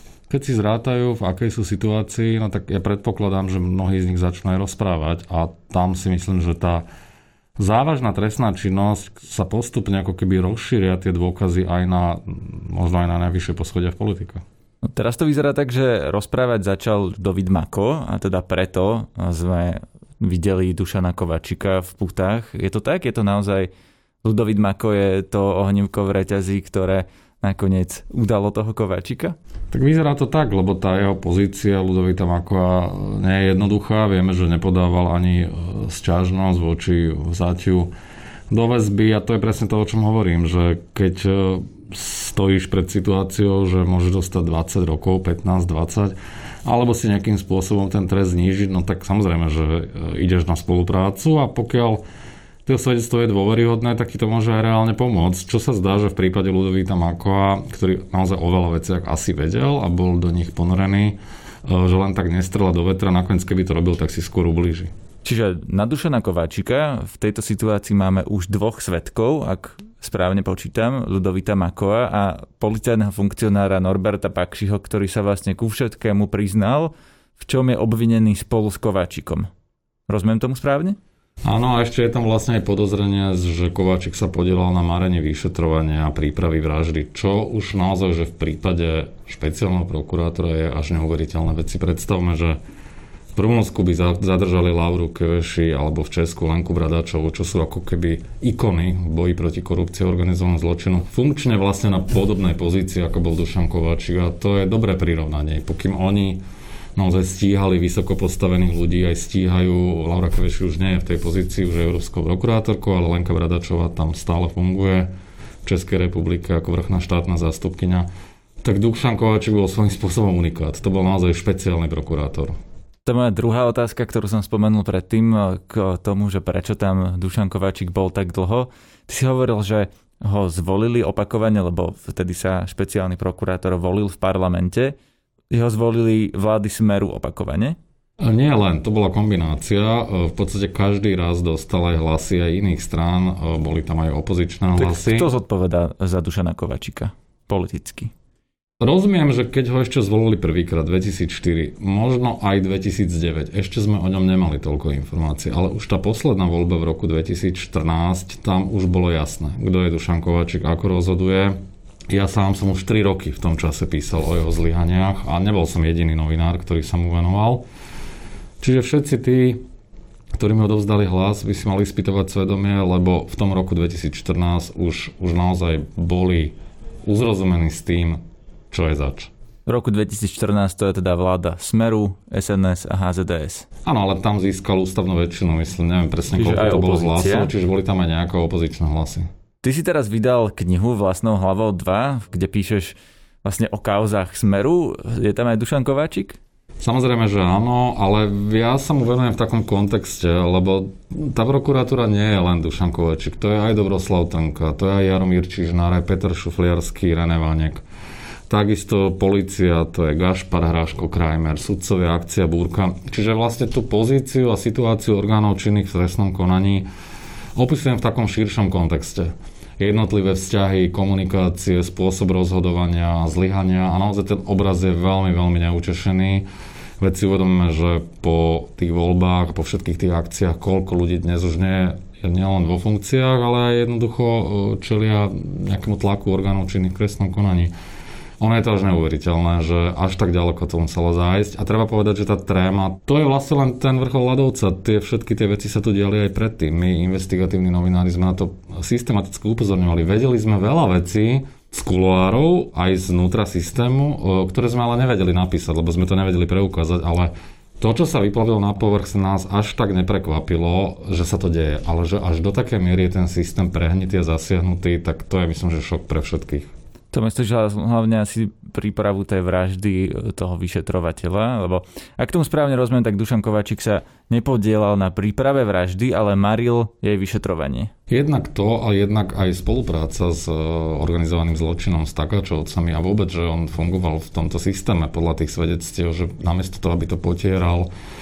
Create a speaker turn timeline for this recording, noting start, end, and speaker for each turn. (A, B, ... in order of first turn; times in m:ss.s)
0:00.3-0:06.9 A
0:07.6-0:14.4 A
0:14.9-0:23.7 B
0:24.2-0:29.4 B
0:29.7-0:37.9 A
0:38.5-0:52.0 A
0:52.7-1:04.9 A
1:05.2-1:19.5 B
1:20.1-1:21.0 B
1:21.4-1:32.6 A
1:33.4-1:46.4 A
1:47.0-1:55.1 A
1:55.6-1:58.1 A
1:58.6-2:02.6 A
2:03.1-2:15.0 B
2:15.5-2:17.8 B
2:18.2-2:25.3 A
2:24.8-2:28.1 B
2:28.8-2:41.6 A
2:42.1-2:47.6 A
2:48.6-2:49.6 A
2:50.4-2:59.3 A
2:59.7-3:03.7 B
3:03.8-3:09.3 A
3:06.3-3:07.5 B
3:09.6-3:16.4 B
3:16.8-3:27.8 A
3:28.5-3:36.9 A
3:37.6-3:46.5 A
3:47.0-3:57.7 A
3:58.4-4:26.7 A
4:27.1-4:37.9 B
4:38.1-4:47.9 A